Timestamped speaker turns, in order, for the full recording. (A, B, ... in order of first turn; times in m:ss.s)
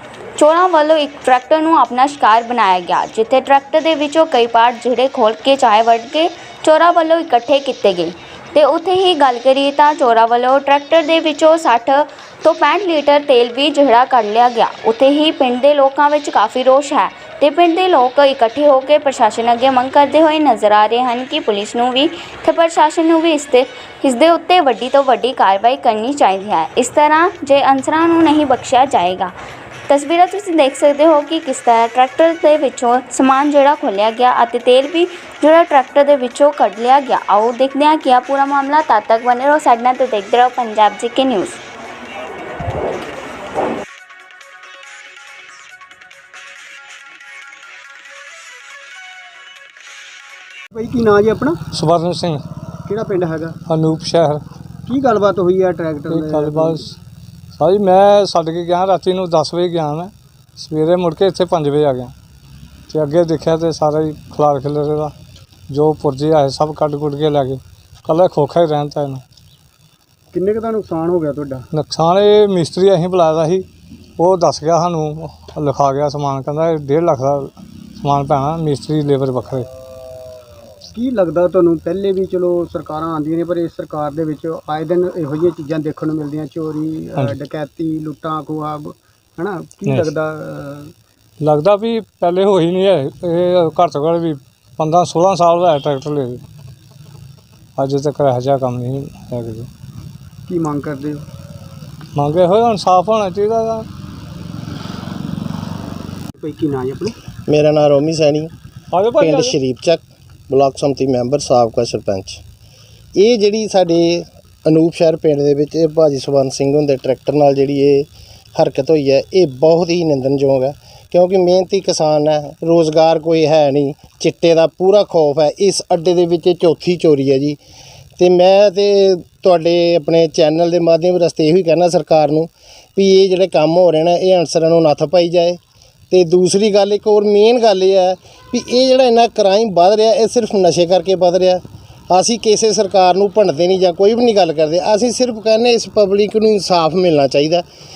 0:00.4-0:29.3 A
0:29.9-0:41.6 A
0:50.7-0:51.6 B
0:51.7-0:52.4 C
0:52.8-0:53.6 B
0:53.7-0:54.4 C
0:54.9-0:56.8 B
0:56.1-0:57.0 C
0:57.6-1:02.1 C
1:02.9-1:05.1 C
1:05.7-1:09.2 C
1:10.3-1:11.7 B
1:11.7-1:13.6 C
1:14.2-1:19.7 C
1:20.9-1:30.9 B
1:29.9-1:30.1 C
1:31.4-1:36.4 C
1:37.8-1:39.7 C
1:40.5-1:41.2 B
1:42.2-1:43.9 C
1:46.4-1:47.2 B
1:47.5-1:48.5 D
1:48.9-1:49.6 C
1:49.2-1:52.4 D
1:53.2-2:07.6 D
2:08.2-2:27.6 D